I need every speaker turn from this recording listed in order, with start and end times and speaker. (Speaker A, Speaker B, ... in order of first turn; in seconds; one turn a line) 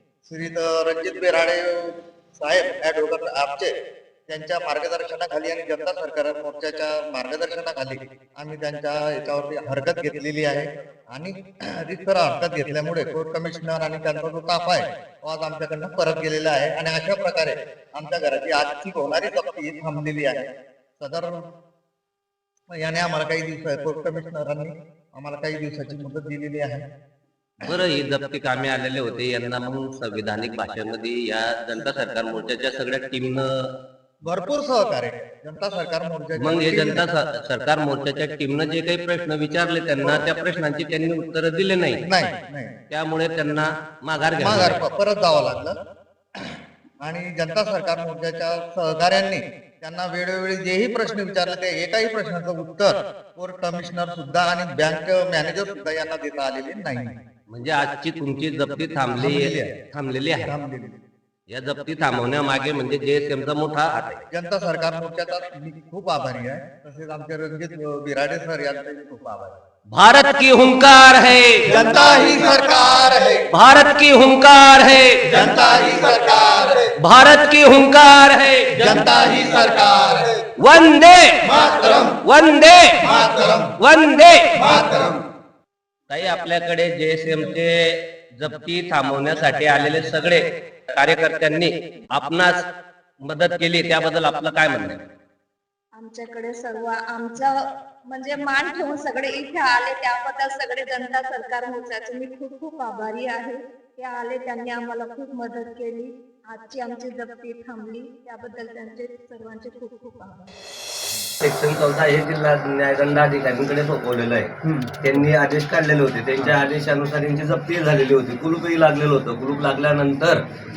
Speaker A: 0.2-3.8
Speaker A: 4.3-21.4
Speaker A: 22.7-26.9
Speaker B: 27.7-33.4
Speaker A: 34.2-37.0
Speaker B: 36.4-42.0
Speaker A: 42.0-42.8
Speaker B: 42.9-44.8
Speaker A: 44.4-45.8
Speaker A: 46.4-57.2
Speaker B: 57.5-60.5
Speaker A: 59.1-59.8
Speaker A: 60.4-61.0
Speaker B: 61.5-64.2
Speaker A: 64.3-69.6
Speaker B: 69.9-71.7
Speaker A: 71.7-73.5
Speaker B: 73.5-75.5
Speaker A: 75.3-76.9
Speaker B: 77.0-79.1
Speaker A: 78.8-80.4
Speaker B: 80.6-83.1
Speaker A: 81.5-82.2
Speaker A: 83.0-83.8
Speaker B: 83.8-84.7
Speaker A: 84.5-85.2
Speaker B: 86.1-87.7
Speaker B: 88.4-90.4
Speaker B: 90.9-92.5
Speaker B: 93.2-95.0
Speaker C: 95.9-110.5
Speaker D: 111.4-120.4